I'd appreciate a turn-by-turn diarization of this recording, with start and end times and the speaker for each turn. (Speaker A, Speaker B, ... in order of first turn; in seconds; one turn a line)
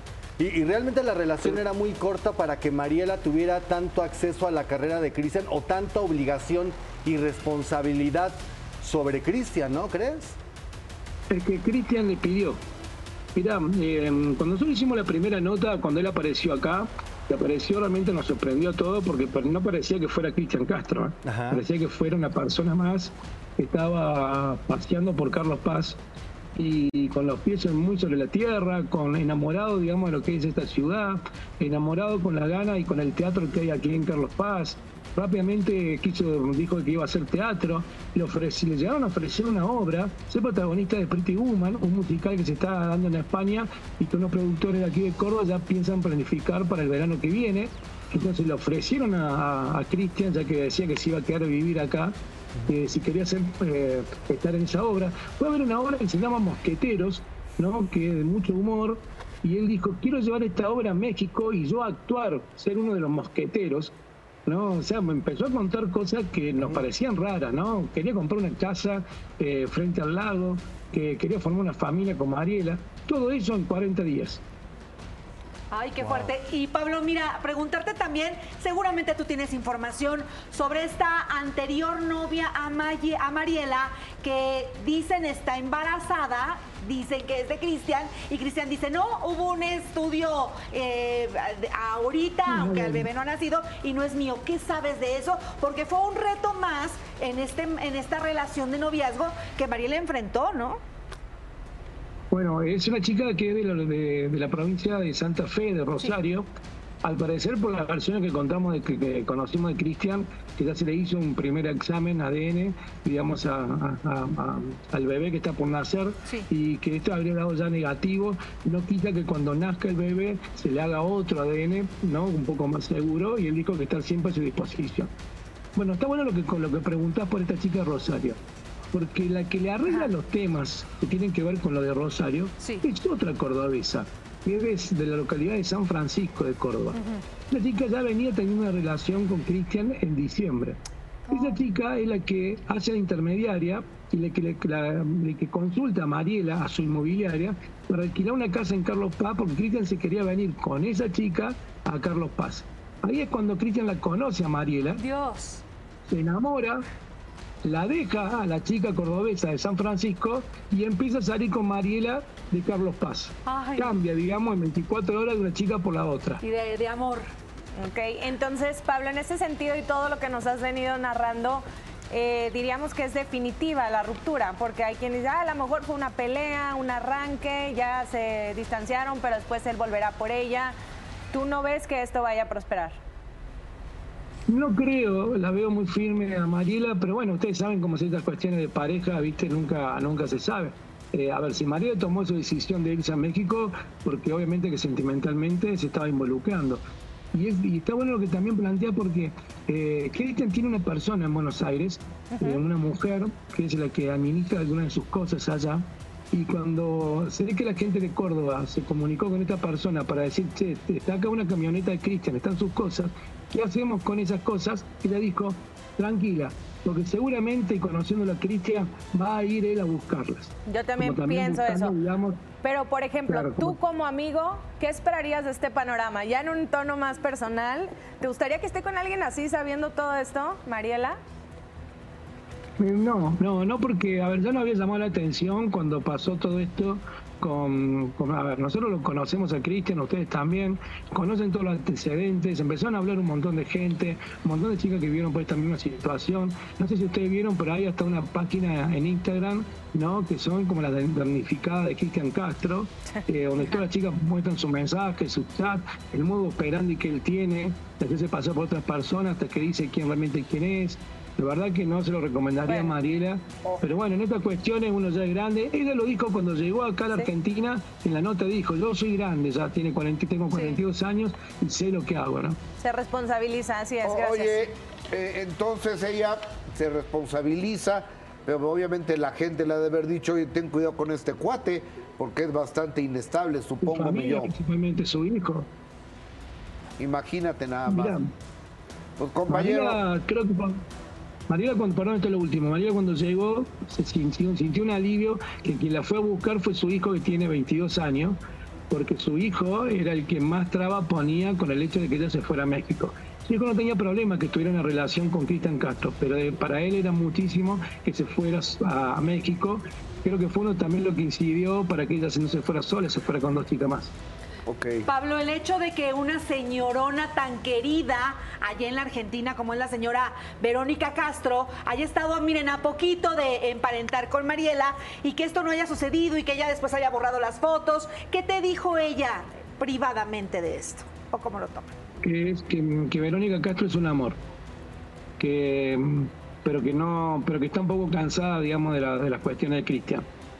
Speaker A: 0.4-10.4
Speaker B: 11.3-12.6
Speaker B: 13.3-26.0
Speaker A: 21.2-21.6
Speaker B: 26.6-63.9
Speaker B: 64.5-74.4
Speaker C: 75.7-100.8
Speaker A: 76.0-76.3
Speaker B: 92.4-93.1
Speaker B: 102.3-106.5
Speaker B: 107.0-125.1
Speaker B: 125.8-128.4
Speaker B: 128.9-140.8
Speaker C: 136.9-137.2
Speaker C: 141.3-141.6
Speaker B: 141.3-155.0
Speaker C: 155.0-155.6
Speaker B: 156.1-156.8
Speaker B: 157.6-166.4
Speaker C: 163.5-163.9
Speaker C: 166.4-167.3
Speaker D: 167.8-180.7
Speaker D: 181.3-183.0
Speaker B: 184.5-196.8
Speaker B: 197.3-222.4
Speaker D: 202.3-202.6
Speaker D: 220.7-221.9
Speaker D: 222.6-231.2
Speaker B: 223.3-223.8
Speaker B: 232.8-272.6
Speaker D: 262.6-262.9
Speaker D: 270.5-270.8
Speaker D: 272.8-274.6
Speaker E: 274.0-284.5
Speaker B: 283.8-285.7
Speaker E: 287.0-288.2
Speaker B: 287.9-288.3
Speaker E: 289.2-290.0
Speaker B: 289.5-290.8
Speaker B: 291.5-298.4
Speaker B: 298.9-314.1
Speaker E: 314.6-315.0
Speaker C: 315.1-331.9
Speaker B: 332.2-334.4
Speaker B: 335.4-340.2